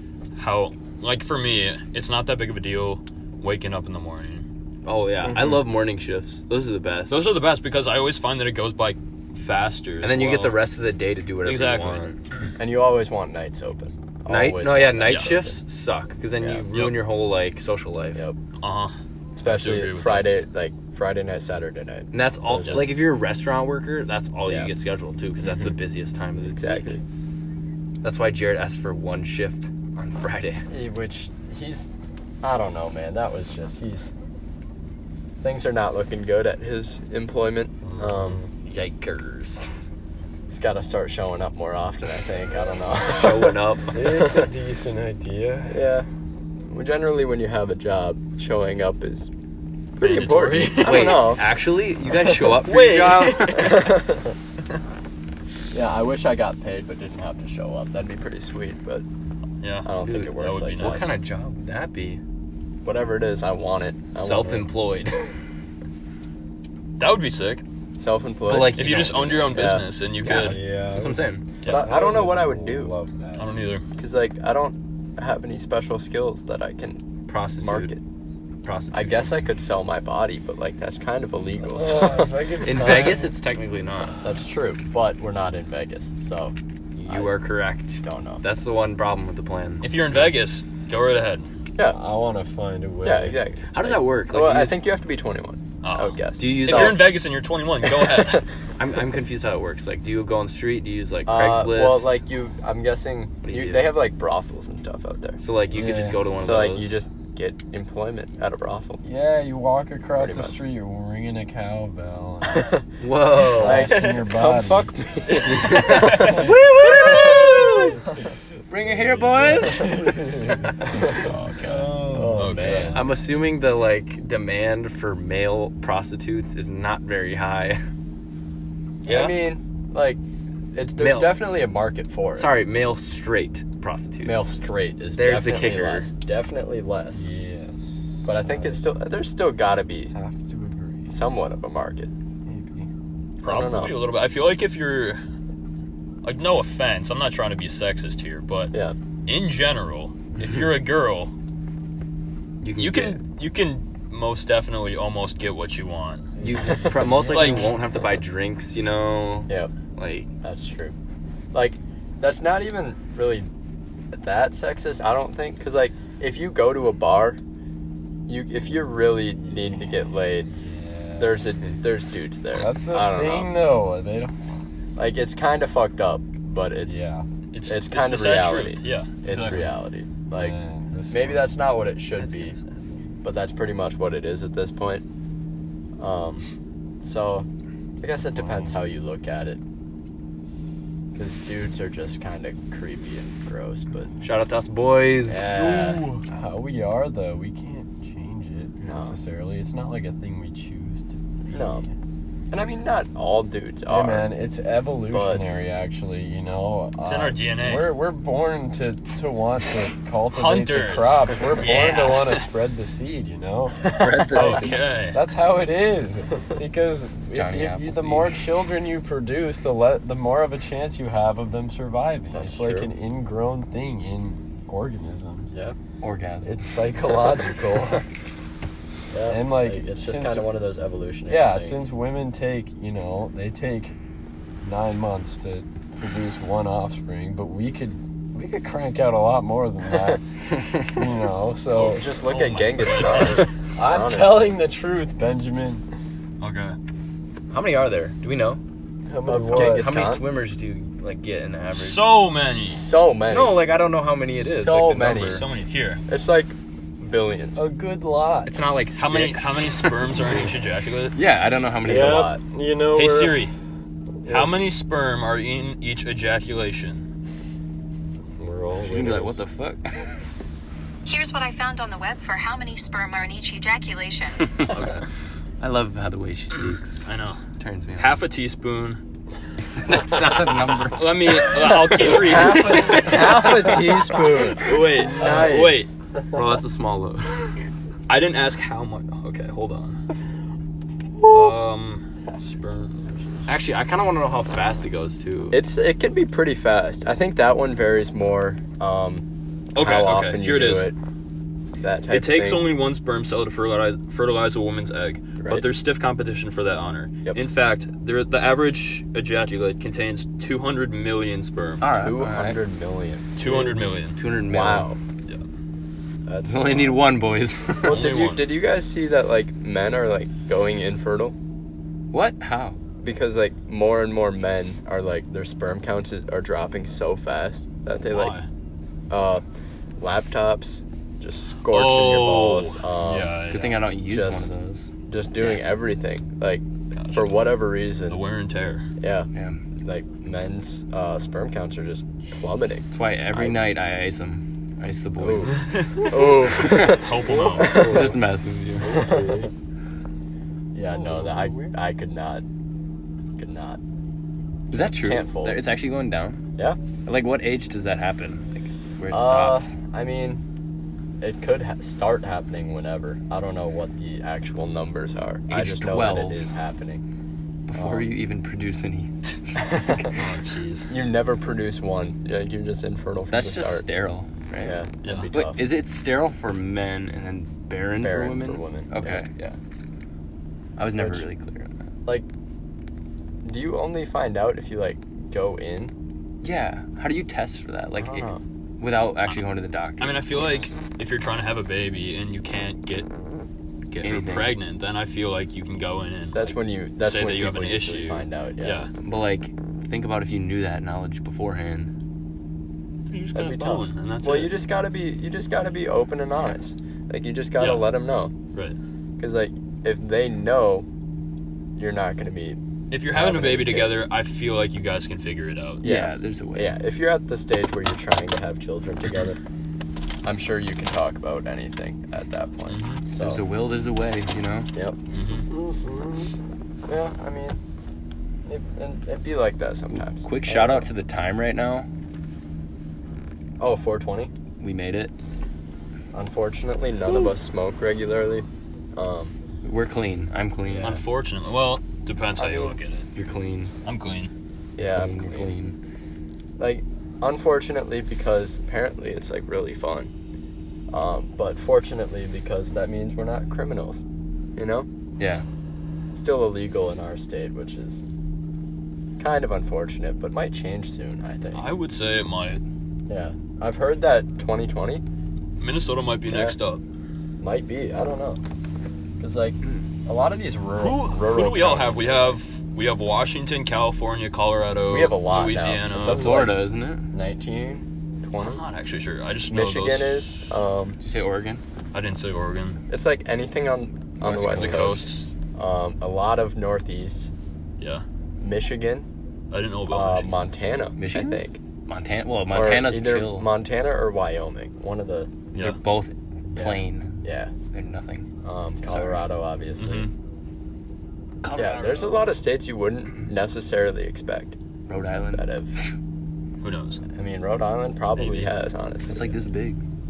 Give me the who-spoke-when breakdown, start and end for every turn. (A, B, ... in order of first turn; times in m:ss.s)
0:00.4-0:04.5 A
0:04.8-0:07.2 B
0:05.2-0:05.6 C
0:07.1-0:10.6 A
0:10.0-0:12.2 B
0:11.4-0:12.0 A
0:12.6-0:15.6 C
0:14.3-0:18.2 B
0:15.1-0:15.4 A
0:16.4-0:16.7 C
0:18.6-0:20.4 A
0:19.4-0:22.9 C
0:22.1-0:27.0 B
0:25.4-0:25.8 C
0:26.4-0:27.0 C
0:28.0-0:30.6 B
0:30.7-0:34.1 C
0:35.4-0:38.4 C
0:38.2-0:38.5 D
0:38.6-0:39.7 B
0:40.5-0:44.5 C
0:43.1-0:44.0 B
0:43.9-0:45.8 D
0:45.7-0:46.1 C
0:46.7-0:49.3 C
0:50.0-0:51.4 C
0:50.0-0:51.4 A
0:50.7-0:53.9 B
0:52.6-0:53.8 A
0:53.5-0:54.4 C
0:55.7-0:59.0 C
0:59.6-1:01.1 A
0:59.8-1:01.2 C
1:00.0-1:02.2 B
1:02.8-1:04.7 C
1:04.2-1:05.2 B
1:07.0-1:07.6 A
1:08.0-1:10.5 C
1:08.5-1:09.4 B
1:08.7-1:10.6 A
1:10.3-1:13.5 D
1:10.3-1:11.4 B
1:11.6-1:12.9 C
1:13.4-1:13.8 A
1:14.0-1:17.0 C
1:17.3-1:17.9 B
1:17.6-1:18.0 C
1:18.6-1:19.3 B
1:18.9-1:23.2 C
1:21.6-1:23.3 D
1:22.6-1:24.2 B
1:24.2-1:26.6 C
1:27.0-1:29.9 B
1:27.1-1:27.4 C
1:28.0-1:28.4 C
1:29.8-1:31.5 A
1:31.8-1:33.4 D
1:33.0-1:37.1 C
1:33.7-1:34.8 B
1:35.8-1:38.5 A
1:36.4-1:37.1 B
1:38.0-1:38.4 C
1:38.8-1:42.2 B
1:41.3-1:49.0 C
1:43.4-1:44.0 B
1:45.4-1:47.0 B
1:45.7-1:46.3 D
1:49.0-1:52.8 D
1:50.1-1:50.6 C
1:52.6-1:52.8 C
1:53.0-1:54.0 B
1:53.4-1:54.9 D
1:53.4-1:57.5 C
1:55.3-1:56.6 A
1:55.3-1:57.9 B
1:56.2-1:57.6 D
1:58.7-2:00.5 B
1:58.8-2:03.0 D
2:01.1-2:03.0 A
2:02.1-2:03.1 C
2:02.9-2:07.8 B
2:09.0-2:10.2 C
2:09.0-2:09.4 A
2:10.7-2:12.6 C
2:11.0-2:11.4 B
2:12.4-2:14.6 B
2:14.2-2:17.2 C
2:15.2-2:16.1 B
2:17.2-2:18.8 D
2:18.2-2:20.1 C
2:20.1-2:21.2 D
2:21.1-2:22.1 C
2:22.5-2:22.9 D
2:23.4-2:24.0 C
2:23.4-2:25.2 A
2:26.2-2:28.7 A
2:29.3-2:31.3 A
2:32.6-2:33.2 B
2:32.8-2:36.3 A
2:36.4-2:40.3 B
2:36.5-2:37.7 D
2:37.2-2:37.7 A
2:40.4-2:41.0 C
2:41.5-2:43.5 C
2:44.1-2:47.4 C
2:48.3-2:50.5 C
2:50.5-2:51.5 D
2:51.2-2:53.6 C
2:52.6-2:54.4 D
2:55.0-2:57.1 C
2:56.9-2:57.2 D
2:57.5-2:59.7 A
2:57.7-3:00.5 C
2:59.4-2:59.7 D
3:00.3-3:01.6 D
3:01.1-3:02.6 C
3:02.2-3:03.0 B
3:03.2-3:05.0 C
3:06.0-3:06.4 C
3:07.0-3:07.5 C
3:08.0-3:09.6 C
3:08.0-3:08.8 D
3:11.2-3:14.1 C
3:14.2-3:15.6 B
3:15.3-3:16.1 C
3:15.5-3:16.2 A
3:16.3-3:21.9 D
3:18.8-3:19.2 C
3:21.5-3:21.9 C
3:22.5-3:24.3 C
3:23.9-3:45.5 D
3:25.1-3:25.4 C
3:27.0-3:27.9 A
3:30.3-3:32.5 A
3:33.9-3:34.8 B
3:34.3-3:35.2 A
3:37.3-3:38.4 B
3:42.3-3:42.9 C
3:45.5-3:45.8 C
3:46.0-3:46.7 B
3:46.4-3:48.1 D
3:49.1-3:51.9 C
3:49.3-3:50.5 D
3:51.3-3:54.0 D
3:54.6-4:02.1 D
4:01.8-4:04.6 C
4:02.3-4:03.5 A
4:03.8-4:05.8 D
4:06.4-4:06.8 A
4:07.5-4:08.6 B
4:09.1-4:09.9 D
4:09.3-4:10.2 C
4:09.5-4:12.0 B
4:11.7-4:12.8 A
4:12.7-4:13.7 C
4:13.3-4:15.4 B
4:14.4-4:15.4 C
4:15.1-4:16.0 A
4:16.1-4:17.6 C
4:17.6-4:18.5 D
4:18.5-4:20.1 B
4:19.0-4:21.2 A
4:21.1-4:22.3 B
4:21.8-4:23.5 D
4:21.8-4:22.4 C
4:22.9-4:23.5 A
4:24.2-4:24.6 D
4:24.3-4:27.0 A
4:28.4-4:29.4 D
4:28.8-4:30.1 B
4:31.0-4:34.6 E
4:34.4-4:34.9 B
4:34.7-4:35.0 A
4:35.6-4:38.2 B
4:37.0-4:37.4 A
4:38.0-4:39.0 A
4:39.8-4:43.5 B
4:40.8-4:43.8 A
4:42.1-4:45.9 C
4:44.6-4:45.9 A
4:45.1-4:45.5 D
4:46.3-4:47.4 B
4:48.1-4:50.0 A
4:51.2-4:51.6 D
4:51.3-4:53.3 A
4:53.5-4:55.6 B
4:55.5-4:59.2 C
4:59.8-5:00.9 A
4:59.8-5:01.0 C
5:01.8-5:02.7 C
5:02.1-5:11.8 A
5:05.4-5:05.7 C
5:11.8-5:12.6 B
5:11.9-5:13.3 C
5:13.4-5:14.2 A
5:13.5-5:13.7 D
5:14.2-5:14.9 B
5:14.5-5:15.0 C
5:16.3-5:17.0 C
5:16.4-5:18.0 B
5:17.8-5:18.4 A
5:17.8-5:21.4 C
5:22.1-5:22.8 B
5:23.0-5:28.4 C
5:28.1-5:28.5 A
5:29.1-5:29.4 C
5:30.0-5:33.3 C
5:31.7-5:33.9 A
5:33.5-5:35.6 B
5:34.1-5:34.5 C
5:35.1-5:38.2 C
5:37.0-5:37.5 A
5:38.1-5:38.9 A
5:39.0-5:39.3 C
5:39.3-5:39.6 B
5:39.8-5:43.6 C
5:42.9-5:45.6 B
5:45.2-5:48.2 C
5:45.6-5:46.1 A
5:46.4-5:47.1 B
5:46.7-5:47.9 A
5:47.2-5:48.3 D
5:47.7-5:49.1 B
5:48.8-5:49.5 D
5:49.0-5:49.4 C
5:50.7-5:52.4 C
5:50.8-5:51.7 D
5:53.4-5:53.8 C
5:54.7-5:55.6 C
5:54.7-5:56.4 B
5:57.1-5:59.7 B
5:59.1-6:00.4 C
6:01.2-6:07.0 C
6:05.5-6:06.4 B
6:07.7-6:09.7 B
6:07.8-6:08.1 C
6:09.6-6:10.1 C
6:10.1-6:10.9 A
6:10.9-6:13.9 C
6:13.3-6:14.8 B
6:14.6-6:15.7 C
6:15.3-6:19.6 B
6:18.0-6:19.3 C
6:20.8-6:21.8 B
6:21.0-6:21.3 C
6:23.4-6:25.9 C
6:26.4-6:30.5 B
6:28.0-6:28.4 C
6:30.0-6:33.1 A
6:33.9-6:38.9 A
6:34.0-6:34.6 B
6:36.3-6:38.9 C
6:39.0-6:41.9 B
6:43.1-6:44.5 A
6:43.3-6:48.3 C
6:47.6-6:47.9 A
6:49.2-6:50.9 C
6:51.8-6:52.6 C
6:52.9-6:55.8 A
6:53.1-6:54.0 C
6:55.8-6:56.7 B
6:55.8-6:59.4 C
7:00.2-7:03.4 C
7:02.7-7:03.0 A
7:03.1-7:04.7 B
7:05.1-7:05.5 A
7:05.5-7:06.3 D
7:06.9-7:07.6 C
7:08.5-7:10.9 C
7:09.9-7:11.9 B
7:13.6-7:14.3 C
7:14.6-7:15.1 B
7:16.1-7:19.4 C
7:19.6-7:21.0 B
7:20.7-7:21.0 C
7:20.8-7:23.1 A
7:22.4-7:22.8 C
7:23.2-7:23.7 B
7:23.8-7:24.3 A
7:24.8-7:25.5 C
7:24.8-7:25.8 B
7:26.6-7:30.1 C
7:30.9-7:34.0 C
7:34.6-7:34.9 C
7:35.2-7:35.4 B
7:36.1-7:38.0 C
7:39.2-7:41.7 C
7:41.6-7:42.6 A
7:43.1-7:45.0 C
7:45.6-7:46.8 A
7:46.3-7:46.6 C
7:47.4-7:48.4 C
7:49.2-7:52.4 C
7:50.8-7:56.4 A
7:54.9-7:58.6 C
7:56.0-7:57.1 B
7:58.4-8:00.4 A
7:59.5-8:01.0 C
8:01.0-8:01.6 B
8:01.9-8:02.8 A
8:02.9-8:07.3 C
8:04.2-8:04.9 B
8:04.4-8:05.3 A
8:08.4-8:09.1 C
8:09.5-8:10.4 A
8:09.9-8:11.6 C
8:11.0-8:13.5 B
8:12.5-8:15.4 C
8:15.6-8:17.1 B
8:16.6-8:17.5 C
8:17.7-8:18.3 B
8:18.4-8:20.1 C
8:18.9-8:19.2 B
8:19.8-8:20.1 A
8:21.4-8:22.1 B
8:21.6-8:24.6 C
8:24.9-8:25.9 B
8:25.3-8:25.8 C
8:26.6-8:27.0 A
8:27.2-8:29.4 C
8:28.2-8:28.5 A
8:29.1-8:29.8 B